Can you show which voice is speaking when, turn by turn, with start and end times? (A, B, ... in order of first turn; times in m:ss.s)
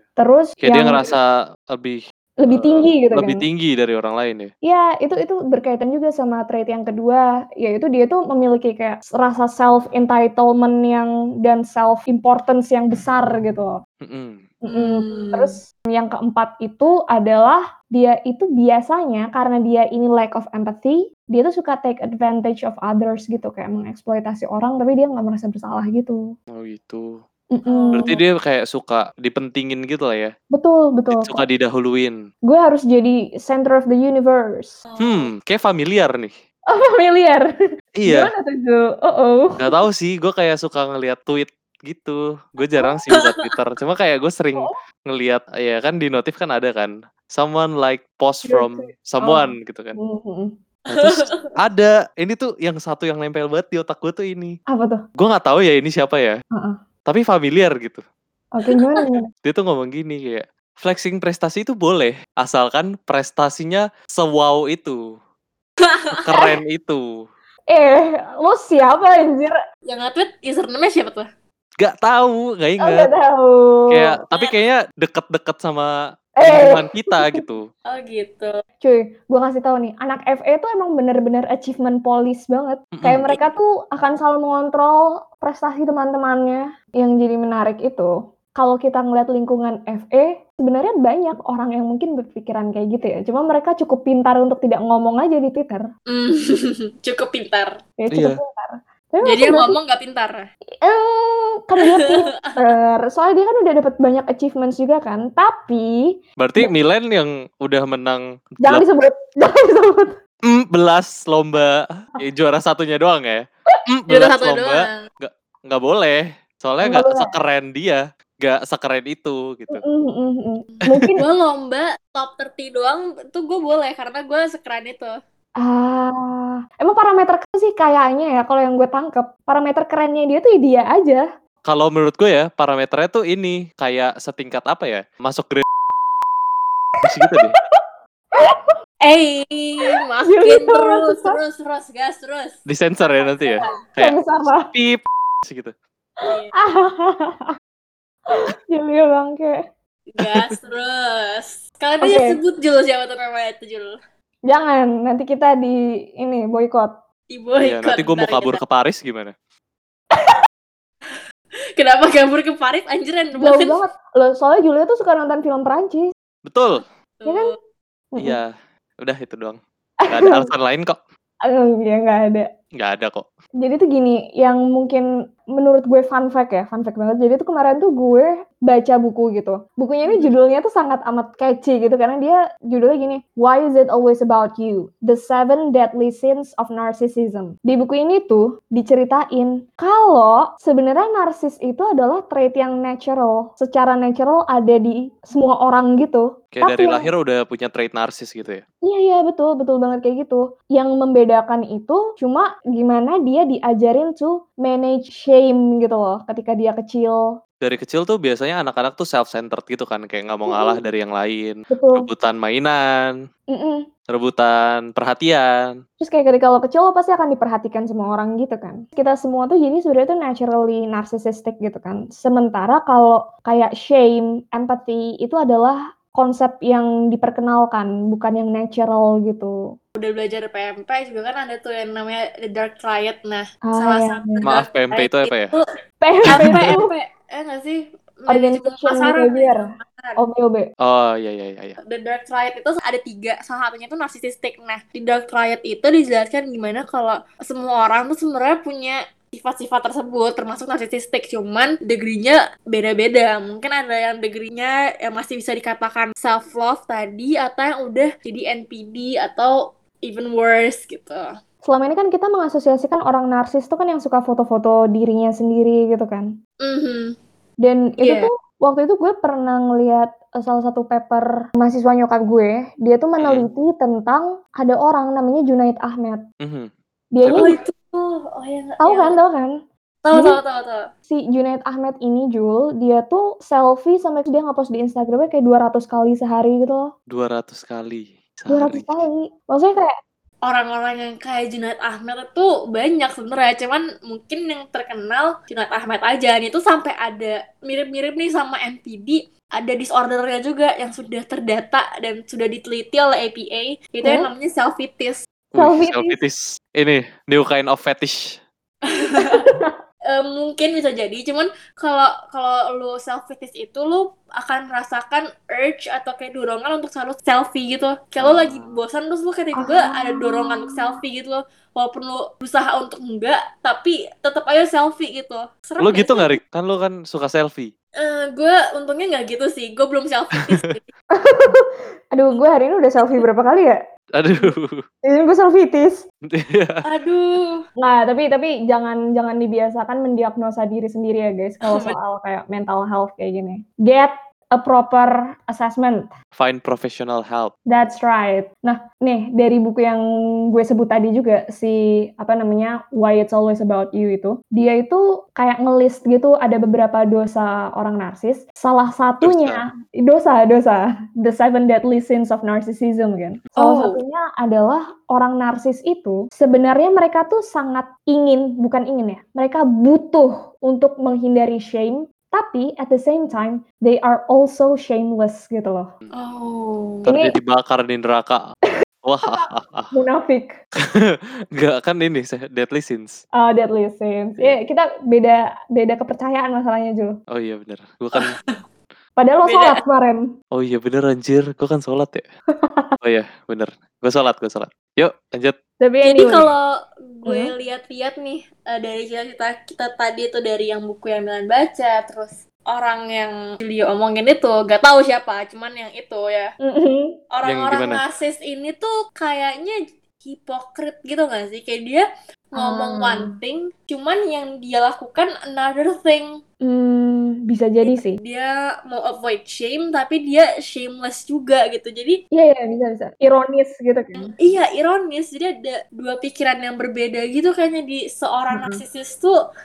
0:00.2-0:01.1 A
0:00.6-0:04.5 B
0:02.4-0:03.4 A
0:04.6-0:13.8 A
0:14.0-0:14.4 B
0:14.6-0:26.3 A
0:14.7-0:15.5 C
0:26.5-0:27.2 B
0:27.5-0:28.2 A
0:27.9-0:30.3 B
0:30.5-0:31.4 A
0:31.1-0:32.2 B
0:32.4-0:34.8 A
0:34.9-0:35.3 C
0:35.0-0:36.3 B
0:36.7-0:37.5 A
0:38.0-0:38.3 B
0:38.1-0:39.7 A
0:39.6-0:50.0 B
0:43.2-0:43.5 C
0:48.5-0:50.5 A
0:50.9-0:54.6 B
0:50.9-0:51.5 C
0:54.7-0:55.0 A
0:55.2-0:56.4 B
0:57.1-0:58.0 B
0:58.5-0:59.3 A
0:58.7-0:59.0 C
0:59.4-1:05.0 B
1:05.8-1:06.4 C
1:06.1-1:07.3 B
1:07.7-1:09.6 A
1:09.9-1:11.3 C
1:11.8-1:13.1 B
1:12.8-1:14.2 A
1:13.9-1:17.7 B
1:16.4-1:17.4 A
1:17.9-1:18.6 C
1:18.8-1:35.9 A
1:22.9-1:23.3 B
1:36.1-1:37.8 C
1:38.0-1:39.8 A
1:38.1-1:38.4 B
1:39.2-1:40.5 C
1:40.8-1:46.7 A
1:41.8-1:42.6 C
1:46.4-1:48.8 B
1:48.6-1:50.2 A
1:50.4-1:59.8 B
1:54.1-1:55.0 C
1:56.8-1:57.3 A
1:59.7-2:01.3 A
2:00.8-2:05.2 C
2:05.6-2:11.2 A
2:11.7-2:15.6 B
2:17.0-2:17.6 B
2:17.2-2:18.7 A
2:19.0-2:22.6 C
2:20.3-2:21.4 A
2:22.7-2:24.2 B
2:23.3-2:23.7 C
2:23.6-2:24.7 A
2:24.7-2:25.7 B
2:26.3-2:26.5 C
2:26.6-2:27.5 A
2:28.3-2:29.6 A
2:30.1-2:34.0 C
2:32.0-2:32.4 A
2:34.5-2:37.0 A
2:37.3-2:38.6 C
2:37.6-2:39.3 B
2:41.8-2:43.8 C
2:43.4-2:46.1 A
2:46.4-2:46.8 B
2:47.2-2:47.5 C
2:47.3-2:47.5 A
2:48.1-2:48.4 A
2:48.2-2:51.0 B
2:50.0-2:50.5 A
2:51.4-2:52.5 A
2:52.7-2:53.3 B
2:53.6-3:17.1 A
3:00.1-3:00.3 C
3:16.5-3:18.6 B
3:18.8-3:27.3 A
3:27.6-3:33.2 B
3:30.5-3:30.8 A
3:31.7-3:32.1 A
3:33.5-3:33.9 A
3:34.1-3:35.8 B
3:36.0-3:49.7 A
3:50.0-3:55.6 C
3:53.6-3:54.4 A
3:54.4-3:55.5 B
3:56.0-3:56.9 A
3:56.3-3:56.8 B
3:56.3-4:00.2 C
3:58.3-4:00.7 A
4:00.8-4:01.8 B
4:01.8-4:21.4 C
4:21.6-4:26.4 A
4:26.6-4:27.2 C
4:27.6-4:36.3 A
4:28.0-4:28.3 C
4:33.2-4:33.5 B
4:36.4-4:36.7 B
4:37.1-4:37.6 A
4:37.2-4:37.5 B
4:37.4-4:39.2 C
4:38.8-4:39.6 A
4:40.0-4:40.9 C
4:40.1-4:40.4 A
4:41.1-4:46.9 A
4:47.1-4:49.0 B
4:48.5-4:50.0 A
4:50.4-5:05.2 C
5:04.0-5:04.3 A
5:05.5-5:08.4 B
5:05.6-5:06.2 A
5:08.9-5:09.5 C
5:09.2-5:09.8 A
5:10.1-5:26.3 C
5:18.2-5:18.5 B
5:19.6-5:21.0 A
5:25.8-5:27.7 B
5:28.0-5:30.9 C
5:31.1-5:33.8 A
5:34.1-5:34.8 B
5:35.0-5:36.0 A
5:36.2-5:36.8 B
5:36.8-5:37.6 C
5:37.8-5:46.1 A
5:41.6-5:42.0 C
5:46.4-5:47.5 B
5:47.7-6:15.9 A
5:59.2-5:59.6 B
6:03.6-6:04.0 C
6:16.1-6:17.1 C
6:17.1-6:18.5 B
6:17.1-6:17.4 A
6:19.0-6:19.9 B
6:19.2-6:20.6 A
6:20.8-6:23.2 B
6:23.4-6:27.2 A
6:27.3-6:28.4 B
6:28.2-6:28.4 C
6:29.2-6:30.3 A
6:29.4-6:29.8 C
6:30.5-6:32.2 B
6:32.6-6:32.9 A
6:33.0-6:35.6 B
6:35.8-6:36.5 A
6:36.0-6:46.5 C
6:37.3-6:37.5 A
6:46.6-6:47.2 A
6:47.3-6:56.4 C
6:47.4-6:48.0 B
6:52.6-6:53.4 A
6:56.6-6:58.2 A
6:57.8-7:02.2 C
7:02.3-7:04.3 A
7:04.2-7:09.4 C
7:08.5-7:08.8 A